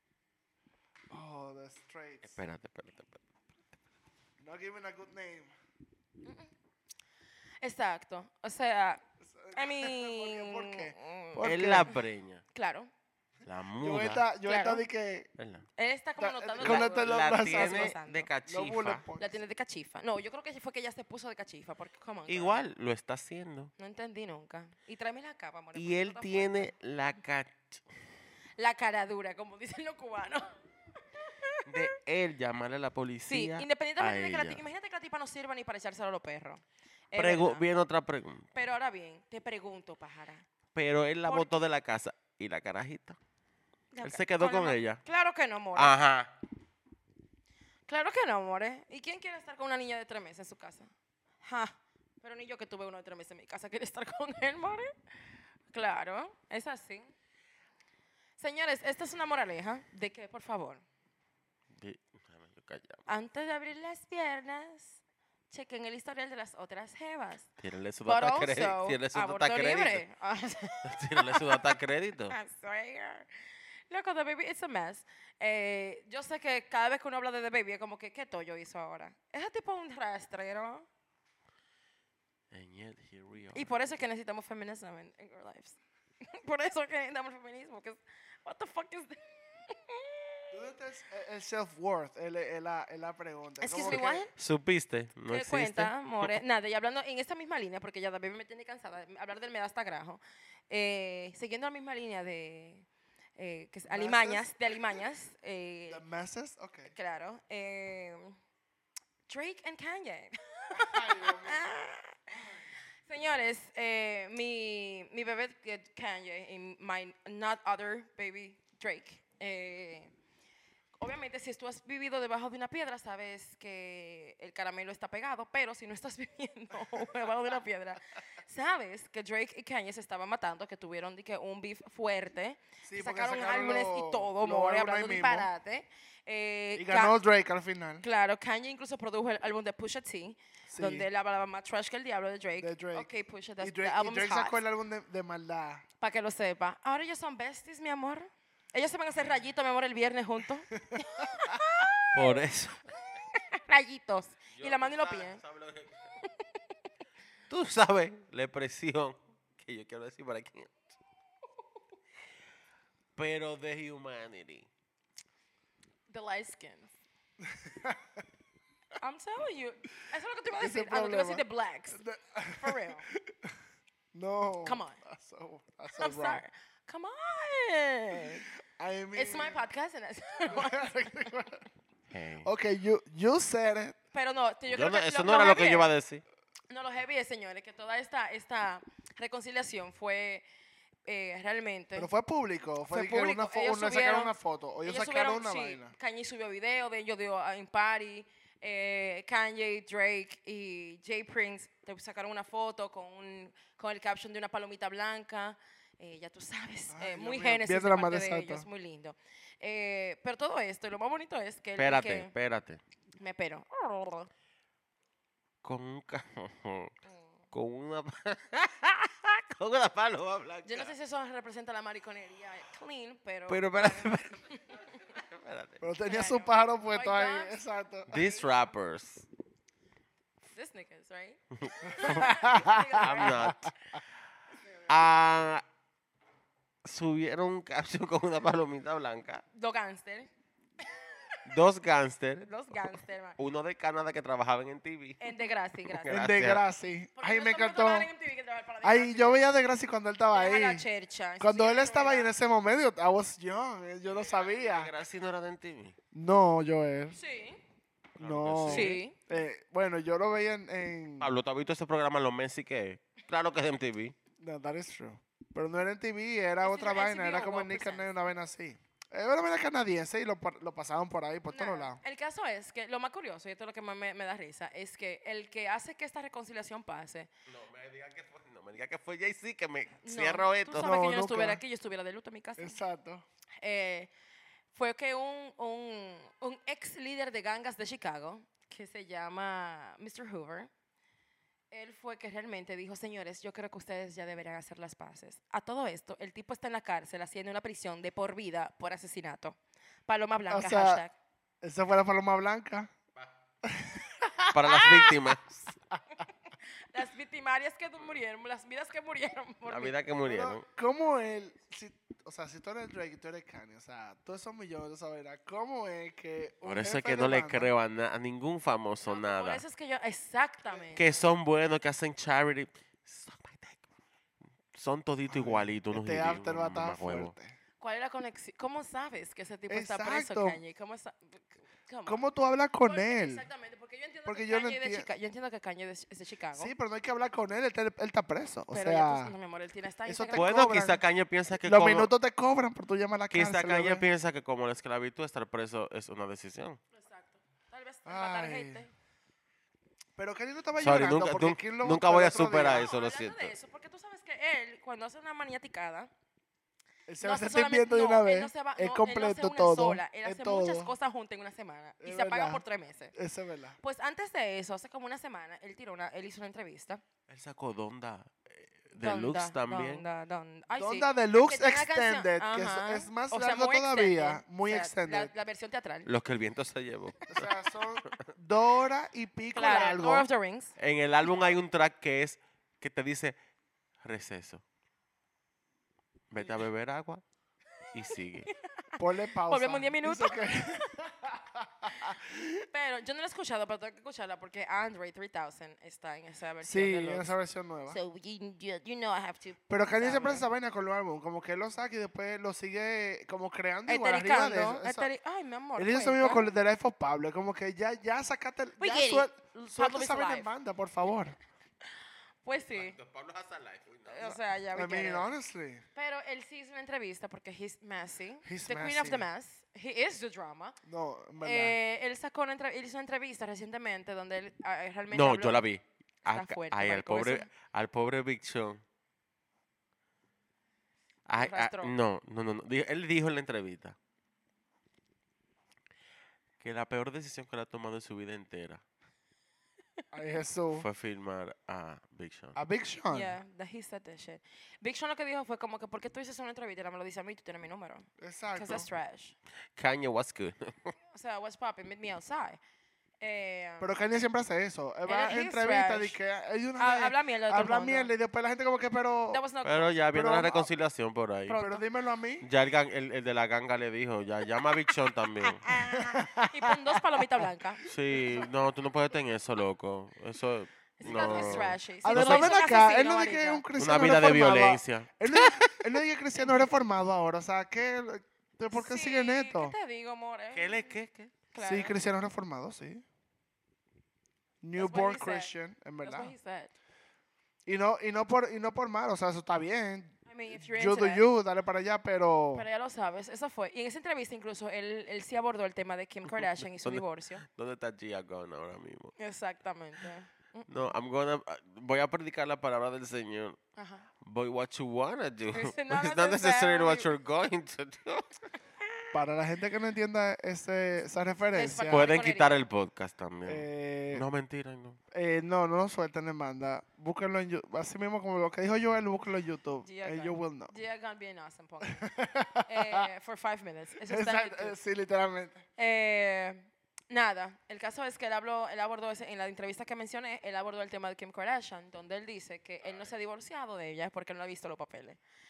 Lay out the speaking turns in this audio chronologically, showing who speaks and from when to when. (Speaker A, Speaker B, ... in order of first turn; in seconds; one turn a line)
Speaker A: 1.1-2.3
Speaker B: 2.2-3.2
Speaker A: 4.4-5.5
Speaker C: 6.2-6.5
Speaker C: 7.6-9.0
Speaker A: 9.2-11.9
Speaker C: 9.5-11.9
Speaker B: 11.4-12.4
Speaker C: 12.5-12.9
Speaker B: 13.5-14.2
Speaker A: 13.8-15.3
Speaker C: 14.4-14.8
Speaker B: 15.4-15.7
Speaker C: 15.8-18.3
Speaker A: 16.2-17.9
Speaker B: 16.6-19.0
Speaker A: 18.5-19.4
Speaker C: 19.2-22.6
Speaker B: 22.3-23.7
Speaker C: 23.8-26.7
Speaker B: 25.8-27.8
Speaker C: 28.6-30.6
Speaker C: 31.3-31.9
Speaker B: 31.7-34.6
Speaker C: 33.2-37.6
Speaker B: 37.1-38.5
Speaker C: 38.5-40.5
Speaker B: 40.8-43.2
Speaker C: 41.3-41.6
Speaker C: 43.9-46.0
Speaker B: 44.0-45.0
Speaker B: 45.8-46.3
Speaker C: 47.9-50.9
Speaker C: 51.4-54.9
Speaker C: 55.7-57.1
Speaker C: 58.4-60.8
Speaker B: 61.7-63.0
Speaker C: 63.1-67.5
Speaker B: 67.6-70.0
Speaker C: 68.0-71.7
Speaker B: 70.8-72.4
Speaker C: 72.2-73.3
Speaker C: 73.9-80.9
Speaker B: 82.5-83.8
Speaker C: 83.5-90.5
Speaker A: 90.5-94.3
Speaker C: 93.6-94.3
Speaker B: 93.8-96.4
Speaker C: 95.3-102.9
Speaker C: 103.4-106.0
Speaker A: 103.9-104.5
Speaker A: 105.9-106.9
Speaker C: 106.9-108.4
Speaker C: 109.3-112.5
Speaker A: 110.8-111.7
Speaker C: 113.1-120.1
Speaker C: 121.0-137.2
Speaker A: 132.8-135.5
Speaker A: 136.8-138.0
Speaker C: 138.0-144.6
Speaker A: 140.7-141.1
Speaker A: 142.6-145.9
Speaker C: 146.0-152.4
Speaker B: 152.1-152.9
Speaker C: 153.3-155.4
Speaker B: 154.6-156.1
Speaker B: 157.5-160.9
Speaker B: 163.2-164.7
Speaker C: 166.1-166.9
Speaker A: 167.5-168.0
Speaker C: 169.0-173.1
Speaker A: 170.5-173.6
Speaker A: 174.1-176.4
Speaker C: 174.7-175.0
Speaker C: 176.0-178.5
Speaker A: 178.7-179.7
Speaker C: 179.2-181.3
Speaker A: 180.5-181.7
Speaker B: 182.1-182.5
Speaker A: 182.4-184.0
Speaker C: 184.1-185.9
Speaker B: 184.7-186.2
Speaker C: 186.7-190.4
Speaker C: 191.1-192.1
Speaker A: 192.0-195.9
Speaker C: 192.9-212.3
Speaker A: 206.9-208.7
Speaker B: 211.8-212.8
Speaker C: 213.2-214.3
Speaker B: 215.6-216.9
Speaker B: 217.5-220.9
Speaker C: 220.6-224.9
Speaker B: 223.5-224.4
Speaker B: 225.0-225.8
Speaker A: 225.8-228.1
Speaker C: 226.1-227.6
Speaker B: 228.1-229.3
Speaker C: 228.1-228.5
Speaker C: 230.5-233.6
Speaker B: 231.6-232.3
Speaker A: 232.0-233.7
Speaker B: 233.0-233.7
Speaker B: 234.9-235.6
Speaker B: 236.8-239.4
Speaker C: 239.5-240.3
Speaker B: 241.5-245.3
Speaker C: 242.4-243.4
Speaker C: 245.2-246.3
Speaker B: 245.9-246.6
Speaker A: 246.1-248.1
Speaker C: 247.2-249.6
Speaker A: 248.8-250.9
Speaker C: 250.3-252.3
Speaker A: 251.4-254.9
Speaker B: 254.1-255.9
Speaker A: 256.1-257.2
Speaker C: 257.1-257.6
Speaker A: 258.2-261.3
Speaker B: 258.2-259.0
Speaker C: 258.7-259.2
Speaker B: 261.2-264.1
Speaker A: 264.4-272.0
Speaker C: 266.6-268.2
Speaker C: 271.5-277.3
Speaker B: 277.5-281.0
Speaker C: 280.0-282.8
Speaker A: 280.8-281.6
Speaker A: 282.6-283.2
Speaker C: 283.6-284.1
Speaker C: 284.7-290.7
Speaker C: 291.7-301.1
Speaker A: 300.5-301.0
Speaker A: 301.6-302.9
Speaker A: 303.6-305.0
Speaker B: 304.5-305.6
Speaker C: 306.9-310.0
Speaker B: 309.7-310.6
Speaker A: 310.2-317.7
Speaker B: 316.6-319.6
Speaker C: 319.1-321.1
Speaker B: 320.9-323.8
Speaker B: 324.7-327.3
Speaker A: 325.3-327.6
Speaker C: 327.8-332.2
Speaker A: 329.7-330.6
Speaker A: 332.1-333.5
Speaker C: 332.8-336.7
Speaker A: 334.3-335.1
Speaker A: 336.6-339.3
Speaker C: 338.7-340.6
Speaker A: 340.1-341.0
Speaker B: 340.3-342.1
Speaker A: 341.6-344.1
Speaker B: 343.3-346.8
Speaker C: 346.9-348.9
Speaker A: 348.1-348.9
Speaker A: 350.2-352.9
Speaker B: 350.8-353.5
Speaker C: 352.6-356.1
Speaker A: 357.1-360.9
Speaker C: 357.2-363.1
Speaker A: 362.0-363.8
Speaker C: 363.8-367.0
Speaker B: 367.3-370.0
Speaker C: 369.0-376.1
Speaker A: 370.7-375.3
Speaker B: 376.1-377.5
Speaker A: 377.3-380.3
Speaker C: 379.5-380.7
Speaker B: 380.8-383.4
Speaker B: 384.0-384.6
Speaker B: 386.3-387.2
Speaker B: 387.9-388.5
Speaker C: 388.5-388.9
Speaker A: 389.0-392.7
Speaker C: 389.4-390.5
Speaker C: 392.7-397.4
Speaker A: 396.6-398.0
Speaker C: 397.9-400.5
Speaker A: 399.7-405.1
Speaker C: 403.9-406.5
Speaker A: 405.8-411.4
Speaker C: 408.8-410.5
Speaker C: 412.4-413.0
Speaker B: 412.5-414.4
Speaker C: 414.1-415.3
Speaker A: 414.7-415.9
Speaker C: 415.9-420.8
Speaker A: 418.4-419.3
Speaker A: 420.9-421.8
Speaker C: 421.4-425.6
Speaker B: 425.1-428.8
Speaker C: 426.3-427.5
Speaker B: 431.3-434.0
Speaker C: 431.4-432.0
Speaker B: 436.6-438.8
Speaker A: 440.1-440.9
Speaker B: 440.8-442.6
Speaker A: 442.6-443.4
Speaker C: 443.1-449.4
Speaker A: 448.2-448.9
Speaker B: 449.8-450.9
Speaker C: 451.1-452.6
Speaker C: 453.2-454.0
Speaker A: 453.8-459.4
Speaker C: 455.1-456.2
Speaker C: 456.8-458.1
Speaker C: 459.3-460.1
Speaker B: 459.6-461.6
Speaker A: 460.1-460.7
Speaker C: 461.5-461.8
Speaker A: 461.5-462.5
Speaker B: 462.4-465.9
Speaker C: 465.7-467.9
Speaker A: 465.7-467.2
Speaker B: 467.9-472.6
Speaker C: 471.0-473.7
Speaker A: 471.0-479.8
Speaker B: 473.8-475.6
Speaker C: 476.4-476.7
Speaker C: 478.7-481.0
Speaker B: 480.5-481.4
Speaker C: 481.5-482.0
Speaker A: 481.6-483.1
Speaker A: 484.6-486.3
Speaker C: 484.8-486.7
Speaker A: 487.7-492.6
Speaker C: 490.3-491.2
Speaker C: 492.5-497.4
Speaker B: 496.8-499.1
Speaker C: 499.2-500.7
Speaker B: 500.7-503.6
Speaker C: 503.8-504.1
Speaker B: 504.2-508.4
Speaker C: 505.5-507.1
Speaker A: 509.1-512.1
Speaker C: 511.5-512.6
Speaker B: 511.9-515.0
Speaker A: 513.5-514.3
Speaker A: 515.1-520.7
Speaker C: 519.8-522.1
Speaker A: 522.0-523.1
Speaker C: 522.6-524.8
Speaker A: 524.1-525.6
Speaker C: 525.8-535.2